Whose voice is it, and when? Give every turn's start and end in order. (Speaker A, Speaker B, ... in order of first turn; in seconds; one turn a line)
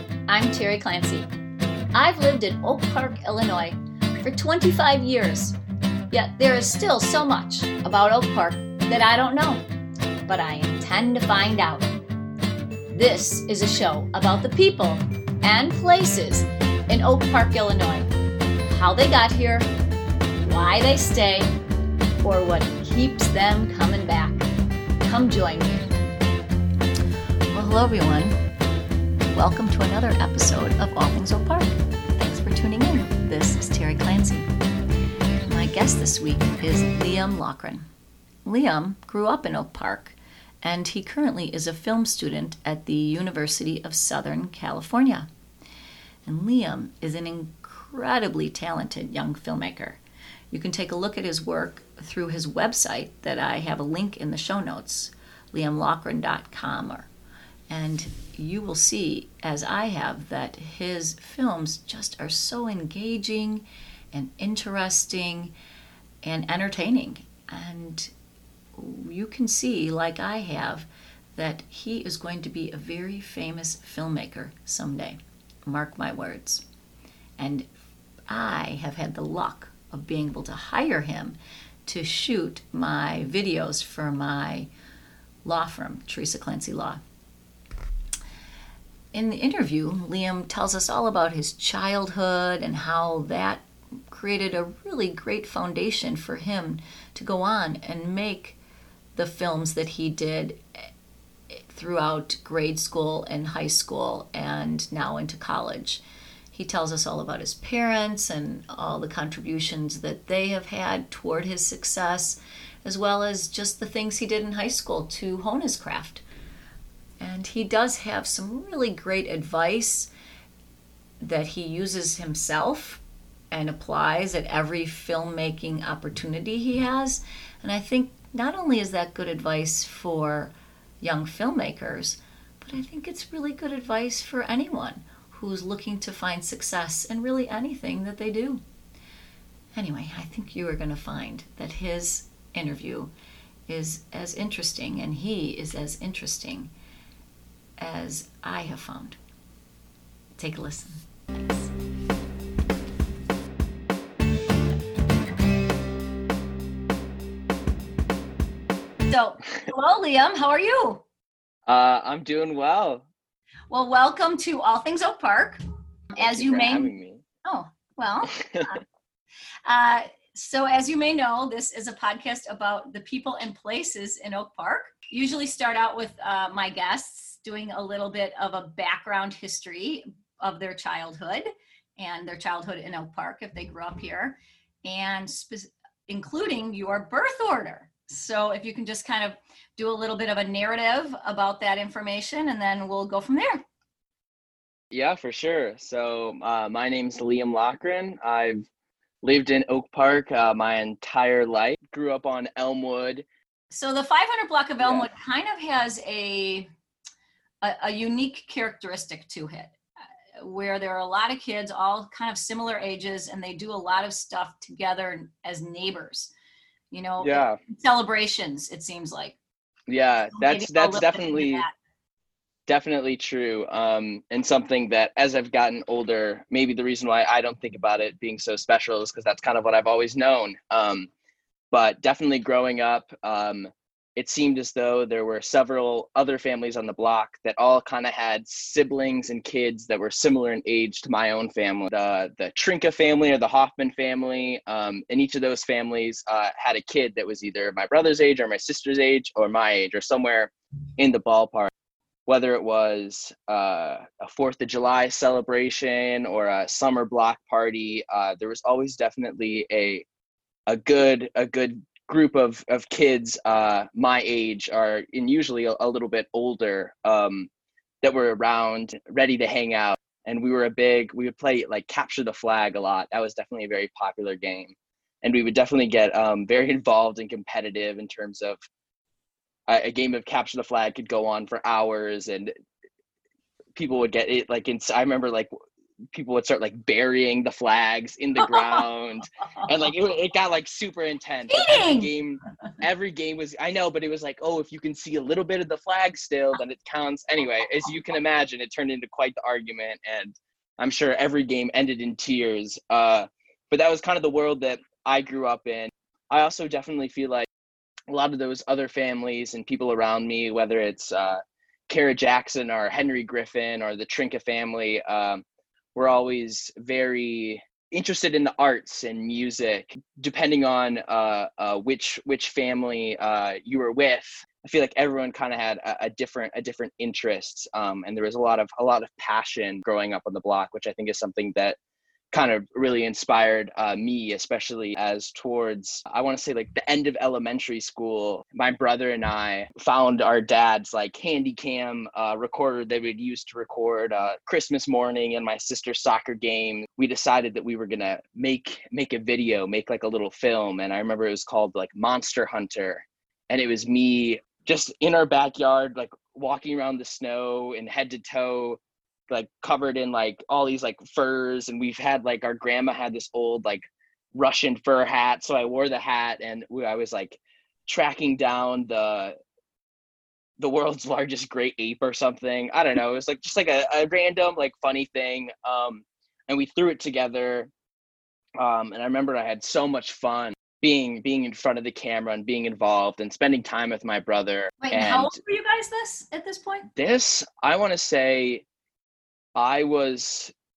Speaker A: 0.3-1.3
Speaker A: 1.9-5.6
Speaker A: 6.1-9.6
Speaker A: 10.2-11.9
Speaker A: 12.9-18.1
Speaker A: 18.6-19.7
Speaker A: 20.4-21.5
Speaker A: 22.2-24.5
Speaker A: 25.0-25.9
Speaker A: 27.5-28.4
Speaker A: 29.3-34.5
Speaker A: 35.5-37.8
Speaker A: 38.4-45.3
Speaker A: 46.2-50.0
Speaker A: 50.5-57.1
Speaker A: 57.7-65.5
Speaker A: 66.2-68.1
Speaker A: 68.8-76.6
Speaker A: 77.4-77.7
Speaker A: 78.3-84.7
Speaker A: 85.4-87.0
Speaker A: 89.1-98.6
Speaker A: 99.1-100.8
Speaker A: 101.5-116.2
Speaker A: 117.2-120.1
Speaker A: 121.2-138.6
Speaker A: 139.7-143.1
Speaker A: 143.7-146.7
Speaker A: 147.8-149.2
Speaker A: 150.4-151.7
Speaker A: 159.1-161.0
Speaker B: 161.7-163.1
Speaker A: 163.7-165.6
Speaker A: 166.1-166.9
Speaker B: 166.2-167.2
Speaker A: 167.4-168.8
Speaker B: 168.3-168.7
Speaker A: 169.7-193.7
Speaker B: 194.9-198.7
Speaker B: 199.2-203.2
Speaker A: 203.7-206.7
Speaker B: 204.8-205.1
Speaker A: 207.6-209.8
Speaker A: 210.4-216.3
Speaker A: 216.9-219.4
Speaker B: 217.2-217.6
Speaker B: 219.9-221.7
Speaker A: 220.3-221.7
Speaker B: 222.7-231.1
Speaker B: 231.7-251.7
Speaker B: 252.3-260.0
Speaker B: 260.7-267.5
Speaker B: 268.0-278.6
Speaker B: 279.7-282.5
Speaker B: 283.7-285.5
Speaker B: 286.1-307.5
Speaker A: 288.4-288.8
Speaker A: 291.5-292.1
Speaker B: 308.1-315.4
Speaker B: 315.9-331.8
Speaker B: 332.3-363.8
Speaker B: 364.3-369.3
Speaker B: 370.6-377.7
Speaker B: 378.6-385.3
Speaker A: 384.8-386.9
Speaker B: 386.9-388.6
Speaker B: 389.6-390.5